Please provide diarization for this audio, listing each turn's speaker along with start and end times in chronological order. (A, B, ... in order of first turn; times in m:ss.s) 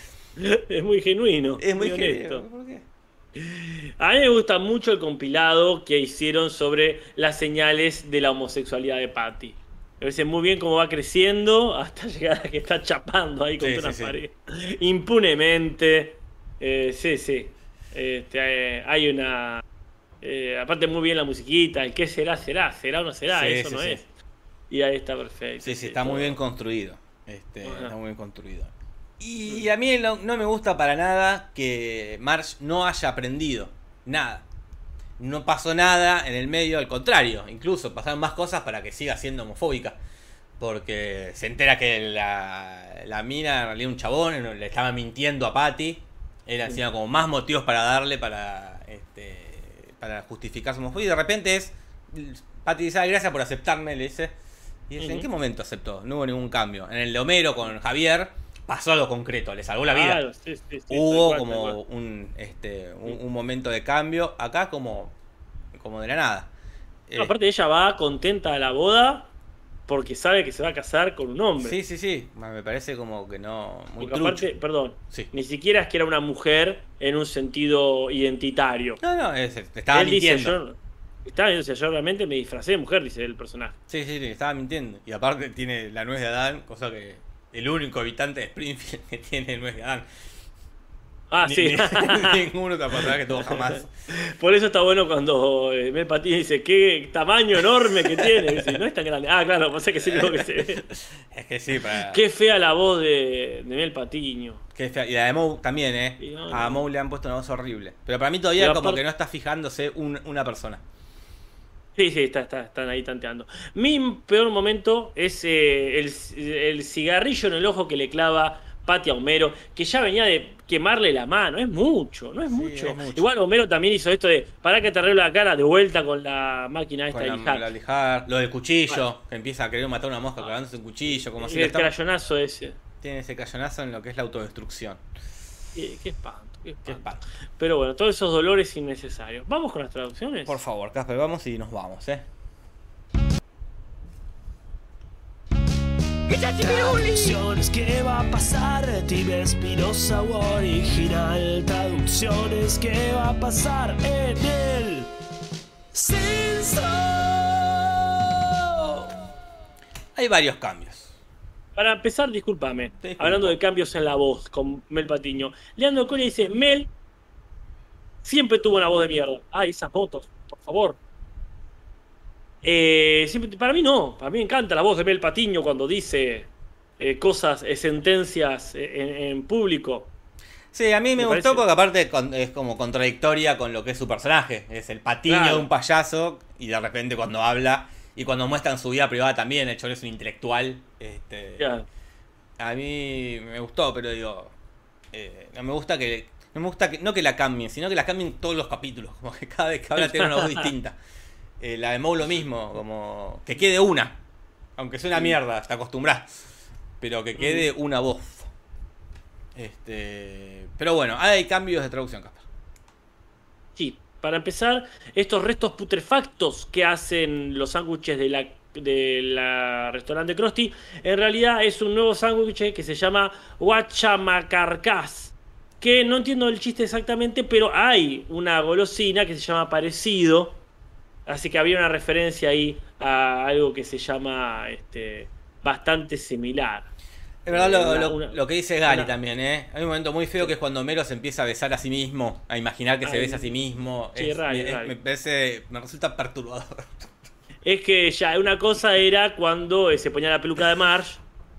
0:00.4-0:02.4 A
0:01.6-0:02.9 B
0:03.4-0:19.6 A
0:13.6-0:14.2 B
0:20.2-0:24.0 A
0:23.3-0:24.0 B
0:24.7-0:26.4 A
0:25.6-0:34.5 B
0:27.6-0:28.0 A
0:35.2-0:40.0 B
0:40.6-0:54.3 B
0:54.9-1:00.2 B
0:55.0-0:55.3 A
0:59.9-1:01.8 A
1:00.9-1:05.2 B
1:05.8-1:06.5 B
1:07.1-1:07.3 B
1:07.2-1:09.3 A
1:09.9-1:11.8 A
1:11.6-1:14.5 B
1:14.0-1:19.0 A
1:19.0-1:20.6 B
1:19.9-1:23.8 A
1:23.9-1:30.1 B
1:31.3-1:32.4 A
1:31.4-1:33.9 B
1:33.5-1:40.8 A
1:37.9-1:38.8 B
1:40.1-1:42.2 B
1:42.0-1:44.6 A
1:44.8-1:50.8 B
1:46.2-1:46.9 A
1:48.6-1:49.0 A
1:52.0-2:07.7 A
2:02.5-2:03.3 B
2:07.1-2:11.9 B
2:11.1-2:12.8 A
2:13.0-2:15.0 B
2:15.8-2:20.6 A
2:16.8-2:17.2 B
2:20.5-2:22.3 B
2:26.3-2:35.1 C
2:35.9-2:39.0 C
2:40.2-2:41.2 B
2:41.8-2:46.9 A
2:43.0-2:43.6 B
2:48.2-2:51.0 A
2:52.6-3:00.1 A
3:00.7-3:11.7 B
3:01.2-3:01.6 A
3:05.3-3:05.7 A
3:11.6-3:11.9 A
3:12.6-3:14.5 B
3:15.1-3:21.0 B
3:20.0-3:20.7 A
3:21.6-3:24.2 B
3:24.8-3:28.5 B
3:27.4-3:27.7 A
3:29.6-3:32.4 B
3:33.8-3:50.6 A
3:51.3-3:56.9 A
3:57.4-4:07.1 B
3:57.5-3:59.1 A
4:03.0-4:03.5 A
4:04.2-4:05.0 A
4:07.6-4:11.2 A